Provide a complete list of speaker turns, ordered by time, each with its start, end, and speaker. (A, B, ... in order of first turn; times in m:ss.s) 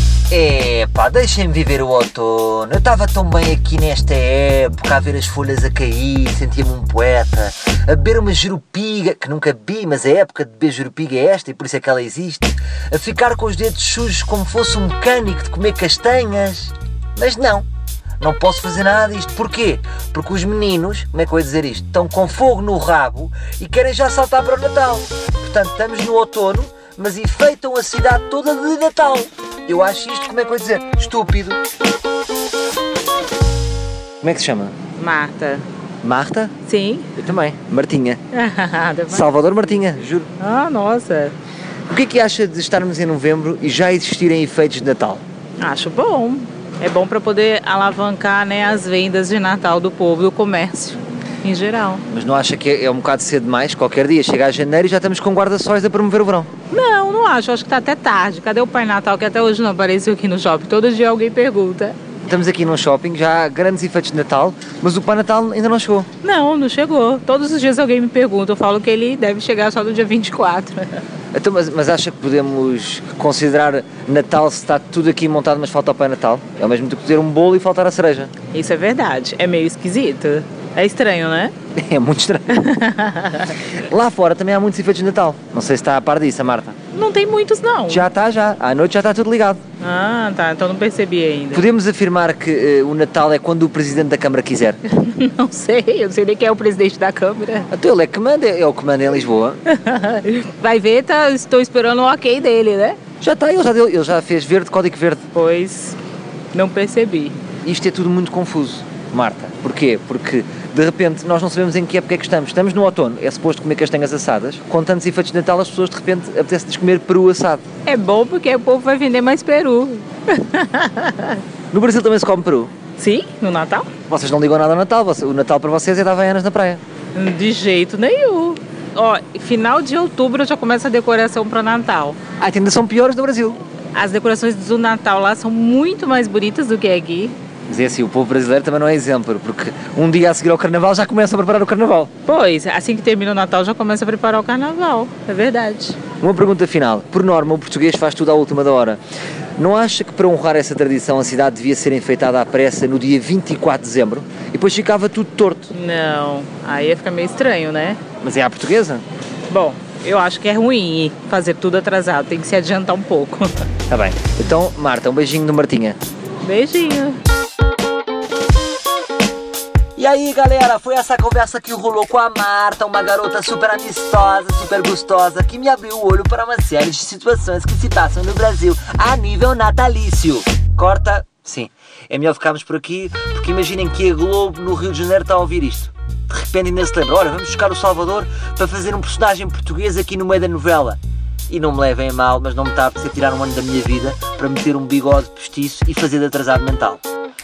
0:00.3-0:17.6 A
0:18.2-0:31.6 A
0:34.2-0:34.7 A
0:35.0-0:35.6 B
0:36.0-0:36.5 A
0:36.6-0:37.1 B
0:37.2-0:38.2 A
0:38.3-0:39.3 B
0:39.1-0:40.3 A
0:40.4-0:41.3 B
0:41.9-0:45.2 A
0:45.6-0:52.0 B
0:52.1-0:56.5 A
0:56.7-1:01.9 B
1:02.3-1:06.1 A
1:06.2-1:10.9 B
1:11.3-1:18.3 A
1:18.5-1:21.5 B
1:21.8-1:22.6 A
1:22.5-1:23.6 B
1:23.8-1:26.8 A
1:26.9-1:28.1 B
1:27.9-1:29.6 A
1:29.8-1:31.7 B
1:31.5-1:34.8 A
1:34.9-1:37.7 B
1:37.7-1:39.6 A
1:39.7-1:43.0 B
1:43.2-1:45.2 A
1:45.3-1:46.0 B
1:46.5-1:47.4 B
1:47.6-1:57.6 A
1:57.8-2:01.4 B
2:01.7-2:02.7 A
2:03.0-2:03.9 B
2:04.1-2:06.8 A
2:07.1-2:12.2 B
2:12.4-2:13.6 A
2:13.9-2:17.3 B
2:17.7-2:22.1 A
2:22.2-2:26.0 B
2:26.2-2:29.0 A
2:29.6-2:35.7 A
2:35.7-2:38.0 B
2:38.2-2:39.0 A
2:39.5-2:43.6 B
2:43.9-2:46.0 A
2:46.4-2:47.2 B
2:50.0-3:17.0 A